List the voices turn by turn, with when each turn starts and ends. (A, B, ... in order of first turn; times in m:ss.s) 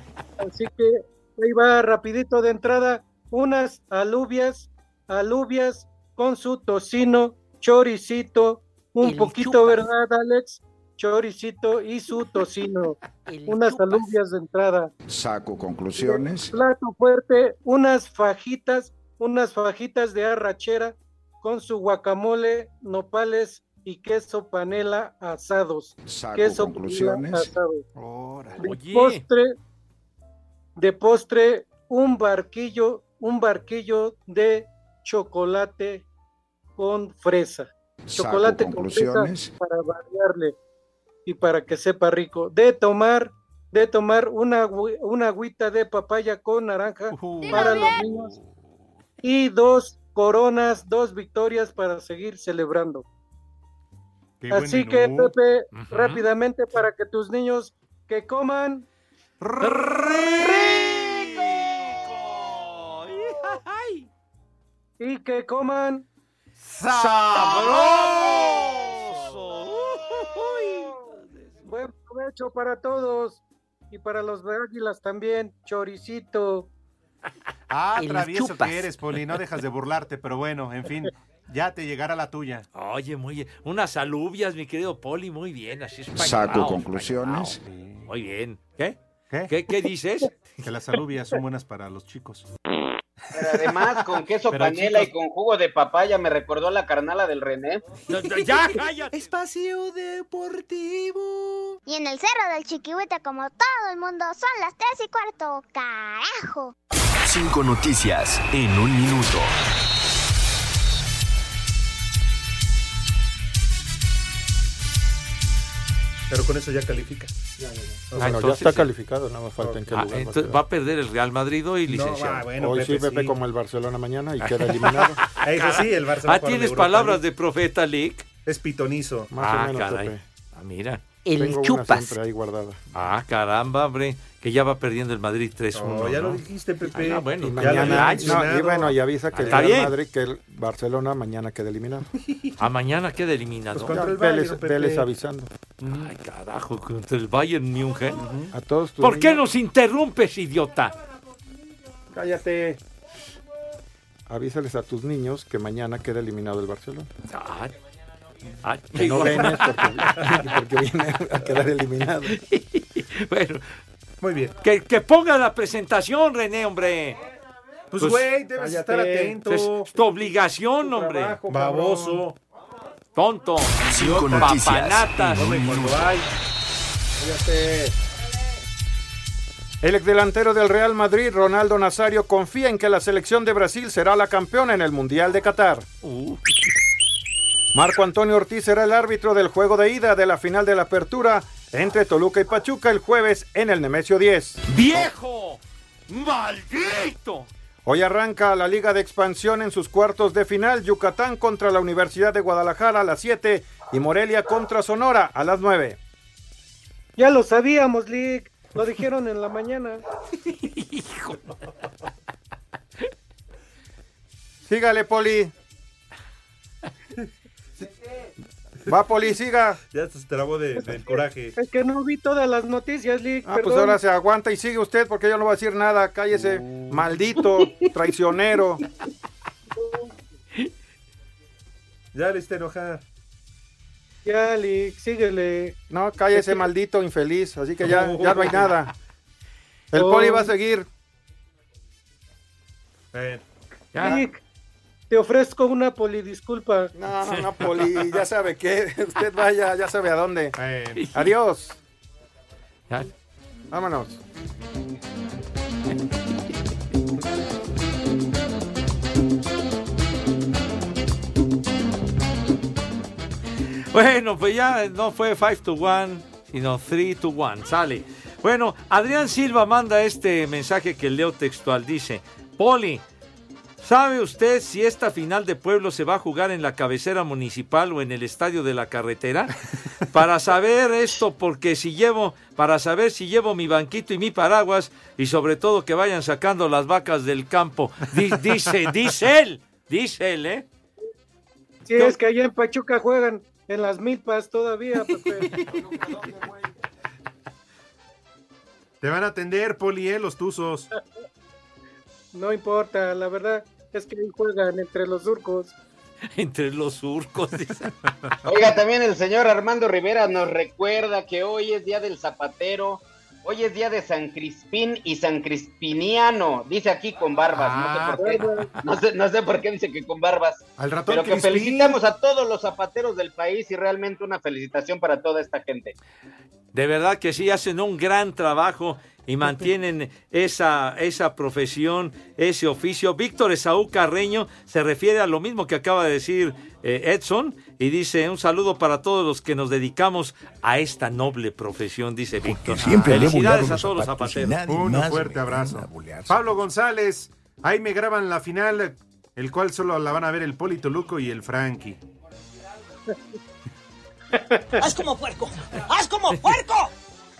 0:00.4-0:14.9 A
0:09.0-0:09.7 B
0:13.3-0:13.8 B
0:15.2-0:16.4 C
0:16.0-0:27.8 A
0:26.1-0:27.5 C
0:28.0-0:28.6 D
0:28.6-0:29.2 E
0:28.6-0:29.5 A
0:30.8-0:36.0 A
0:36.8-0:40.5 A
0:38.2-0:39.5 C
0:41.2-0:48.3 A
0:47.1-0:48.4 D
0:47.5-0:47.9 F
0:49.2-0:53.0 A
0:54.4-0:55.3 D
0:54.5-0:58.9 A
0:55.7-0:56.3 E
0:59.4-1:01.0 D
0:59.6-1:04.1 E
1:00.4-1:00.8 A
1:05.0-1:06.0 A
1:06.7-1:08.9 D
1:06.9-1:11.7 E
1:11.6-1:16.7 A
1:17.7-1:22.6 D
1:18.0-1:18.7 B
1:22.7-1:30.6 E
1:26.2-1:27.5 C
1:27.6-1:28.1 D
1:30.6-1:32.5 D
1:33.3-1:37.8 G
1:33.4-1:33.8 D
1:34.5-1:35.1 D
1:38.1-1:39.1 E
1:39.1-1:41.8 D
1:41.9-1:46.7 F
1:47.2-1:49.5 H
1:56.3-1:57.3 D
1:57.6-2:00.6 I
1:58.1-1:58.5 D
1:58.2-1:58.9 E
1:59.6-1:59.9 D
1:59.9-2:02.5 E
2:01.9-2:03.4 D
2:02.6-2:05.2 I
2:04.4-2:08.2 E
2:05.4-2:07.2 D
2:08.4-2:09.3 D
2:09.3-2:10.2 I
2:09.4-2:11.0 E
2:11.2-2:12.1 B
2:11.3-2:12.8 I
2:12.9-2:18.5 E
2:15.7-2:19.7 D
2:17.4-2:22.1 I
2:19.3-2:19.9 E
2:22.2-2:22.5 D
2:22.6-2:24.0 E
2:23.7-2:25.1 D
2:23.9-2:25.5 I
2:25.8-2:26.1 D
2:25.9-2:28.2 E
2:28.1-2:28.5 D
2:28.5-2:29.4 I
2:29.0-2:30.9 E
2:32.2-2:32.7 I
2:32.2-2:32.8 D
2:34.3-2:37.1 I
2:37.3-2:37.7 E
2:38.6-2:40.4 E
2:39.0-2:42.4 I
2:42.3-2:43.6 E
2:44.2-2:44.6 D
2:44.6-2:47.2 E
2:47.9-2:49.9 D
2:48.0-2:48.2 E
2:48.6-2:49.4 I
2:49.4-2:51.4 E
2:50.8-2:52.2 I
2:51.5-2:52.4 D
2:53.1-2:55.8 E
2:53.9-2:56.1 H
2:53.9-2:54.6 D
2:55.4-2:56.2 D
2:57.2-2:57.9 I
2:59.8-3:05.8 I
3:06.0-3:06.5 E
3:07.7-3:14.6 I
3:14.7-3:17.5 E
3:17.9-3:26.0 I
3:27.2-3:30.0 A
3:30.4-3:31.6 E
3:34.6-3:35.5 I
3:38.9-3:39.8 I
3:39.8-3:41.5 D
3:40.8-3:44.0 A
3:43.4-3:48.8 I
3:46.3-3:47.2 D
3:49.8-3:50.1 A
3:52.1-3:53.0 D
3:54.2-3:55.8 A
3:55.9-3:58.9 I
3:56.4-3:56.6 A
3:57.8-3:58.8 D
3:59.9-4:00.9 I
3:59.9-4:00.5 A
4:03.1-4:03.4 D
4:03.9-4:04.2 E
4:04.0-4:04.4 A
4:05.1-4:06.9 A
4:06.9-4:10.6 I
4:07.3-4:07.6 E
4:10.5-4:11.1 D
4:11.0-4:11.3 E
4:11.1-4:11.8 I
4:13.7-4:14.2 I
4:23.9-4:33.0 E
4:33.8-4:39.5 E
4:40.1-4:50.6 E
4:51.9-4:55.5 A
4:55.1-4:55.8 E
4:59.0-5:00.9 D
5:02.3-5:05.8 A
5:06.3-5:07.9 E
5:08.4-5:25.9 G
5:17.5-5:18.4 D
5:18.3-5:18.6 A
5:20.8-5:22.0 D
5:26.7-5:44.6 E
5:42.4-5:46.4 C
5:44.4-5:45.3 H
5:44.6-5:52.0 D
5:54.3-5:54.9 A
5:54.8-5:56.9 B